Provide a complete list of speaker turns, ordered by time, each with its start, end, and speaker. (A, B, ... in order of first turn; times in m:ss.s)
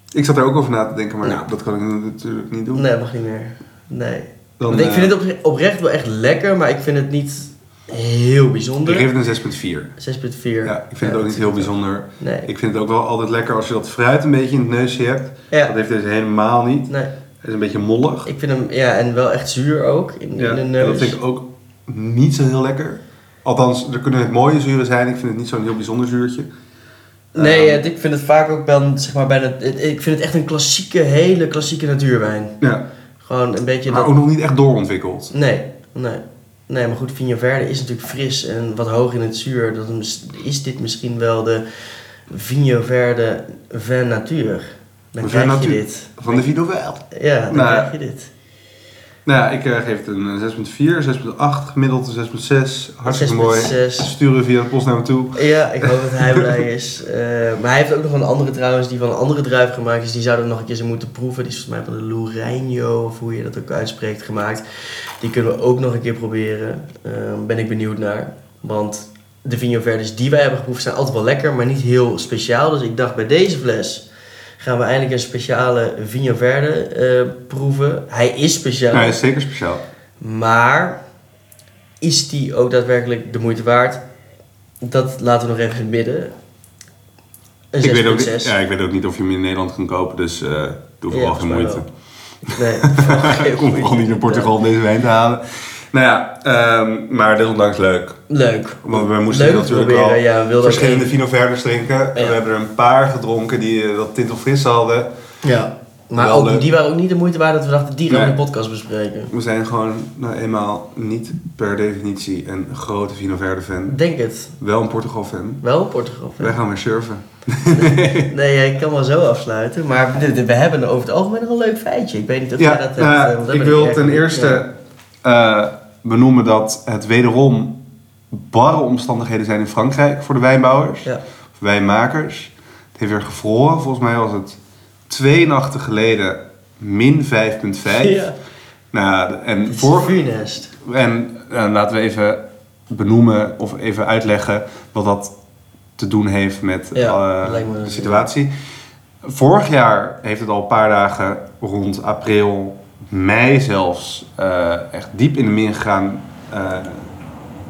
0:00.1-0:02.9 A
0:02.7-0:09.1 B
0:04.6-0:05.2 A
0:08.8-0:09.9 A
0:10.0-0:12.5 B
0:10.6-0:16.9 A
0:17.4-0:18.3 A
0:18.3-0:21.2 B
0:20.4-0:26.5 A
0:27.3-0:27.8 A
0:27.4-0:32.6 B
0:33.2-0:34.1 B
0:33.9-0:35.3 A
0:35.3-0:41.6 B
0:42.3-0:46.5 B
0:45.2-0:47.9 A
0:47.1-0:48.3 B
0:49.2-0:56.6 A
0:53.1-0:54.1 B
0:55.4-1:04.6 B
1:05.2-1:14.1 B
1:14.6-1:19.2 B
1:18.9-1:19.8 A
1:20.2-1:21.0 B
1:22.0-1:24.0 B
1:24.8-1:26.3 B
1:27.7-1:28.6 B
1:27.8-1:31.9 A
1:31.1-1:31.8 B
1:32.5-1:34.5 B
1:32.5-1:38.2 A
1:38.3-1:41.1 B
1:38.8-1:45.1 A
1:45.4-1:49.3 B
1:46.1-1:46.7 A
1:48.1-1:48.4 A
1:49.3-1:54.0 A
1:53.9-1:54.6 B
1:54.6-1:55.6 A
1:55.6-1:56.6 B
1:56.4-1:58.3 A
1:57.7-2:04.6 B
2:02.6-2:04.7 A
2:05.2-2:07.8 A
2:08.3-2:11.1 A
2:11.6-2:18.3 A
2:17.9-2:18.4 B
2:18.9-2:25.3 A
2:19.7-2:20.7 B
2:26.0-2:28.5 A
2:27.0-2:28.3 B
2:29.2-2:37.1 A